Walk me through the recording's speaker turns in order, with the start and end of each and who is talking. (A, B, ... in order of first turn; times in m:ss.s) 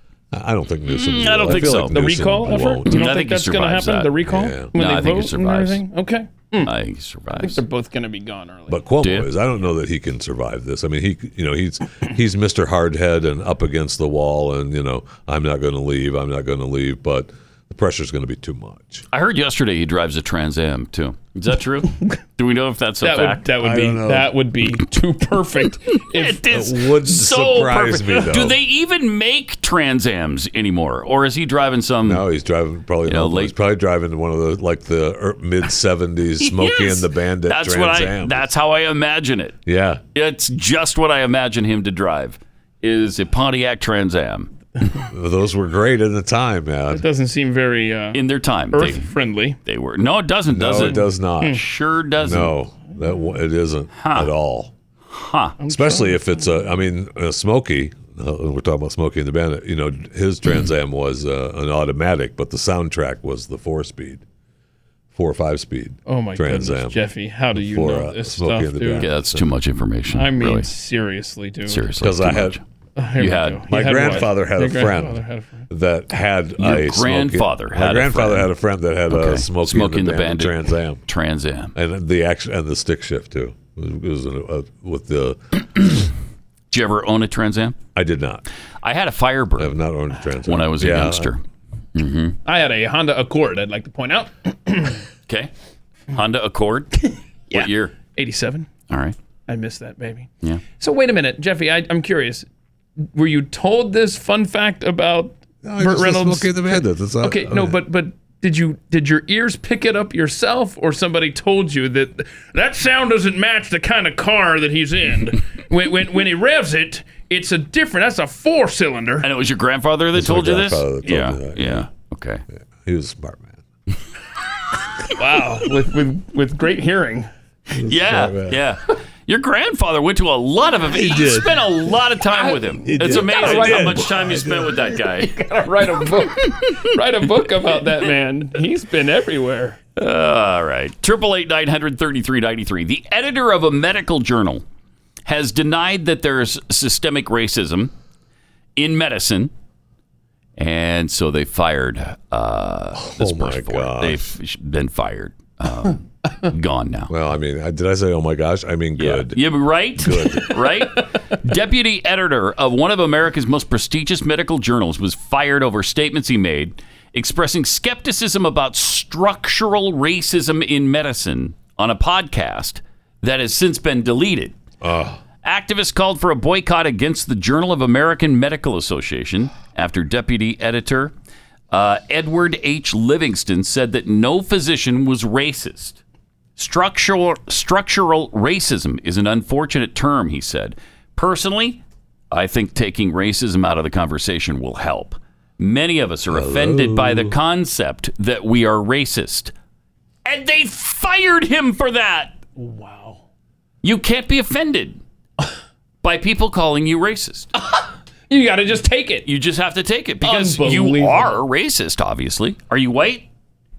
0:00.3-0:03.0 A
0:00.9-0:02.0 B
0:01.5-0:06.7 C
0:02.9-0:04.2 B
0:04.2-0:04.7 A
0:04.7-0:05.8 B
0:06.6-0:07.6 B
0:07.3-0:08.8 C
0:08.7-0:19.1 A
0:09.0-0:09.3 B
0:19.1-0:23.5 B
0:23.0-0:26.4 C
0:23.6-0:24.3 A
0:26.0-0:32.2 B
0:26.5-0:28.6 A
0:32.0-0:38.4 A
0:33.1-0:33.5 B
0:36.4-0:39.6 B
0:39.7-0:40.0 A
0:40.1-0:44.5 B
0:45.1-0:47.0 A
0:46.9-0:48.2 C
0:48.1-0:49.1 B
0:48.7-0:49.6 C
0:49.6-0:52.6 B
0:50.5-0:51.6 A
0:52.2-0:54.7 A
0:54.0-0:54.3 B
0:55.1-0:55.6 B
0:55.6-0:56.3 C
0:55.7-1:04.2 A
1:05.1-1:07.0 A
1:06.1-1:09.1 C
1:07.5-1:09.5 A
1:09.0-1:10.7 B
1:10.1-1:11.9 C
1:11.7-1:12.6 B
1:12.0-1:12.6 A
1:13.0-1:15.6 C
1:13.2-1:13.7 B
1:13.7-1:21.0 A
1:16.6-1:18.5 B
1:19.1-1:21.7 B
1:21.8-1:26.1 A
1:26.7-1:27.8 B
1:28.0-1:28.4 A
1:28.8-1:29.8 B
1:29.6-1:31.3 A
1:30.5-1:31.4 B
1:32.0-1:32.4 B
1:32.5-1:35.0 C
1:36.1-1:38.0 B
1:37.5-1:38.7 C
1:38.9-1:39.2 B
1:39.5-1:42.5 C
1:43.1-1:59.3 C
1:45.6-1:47.8 A
1:59.2-2:02.4 B
2:00.1-2:01.9 A
2:02.8-2:03.6 A
2:05.1-2:07.3 C
2:07.8-2:15.3 B
2:07.8-2:08.6 A
2:10.9-2:11.7 A
2:12.3-2:19.8 C
2:12.8-2:15.0 A
2:16.4-2:16.8 B
2:20.0-2:24.6 B
2:25.3-2:27.9 B
2:28.8-2:29.5 B
2:30.6-2:37.1 B
2:33.0-2:34.3 A
2:37.1-2:39.4 A
2:39.0-2:54.6 B
2:40.0-2:40.6 A
2:54.8-2:55.2 A
2:55.4-3:01.1 B
3:01.7-3:06.0 B
3:06.6-3:19.5 B
3:16.3-3:17.4 A
3:20.2-3:22.4 B
3:22.6-3:23.2 C
3:23.8-3:25.0 B
3:26.0-3:27.5 B
3:27.6-3:29.3 C
3:29.2-3:33.3 B
3:30.2-3:31.4 C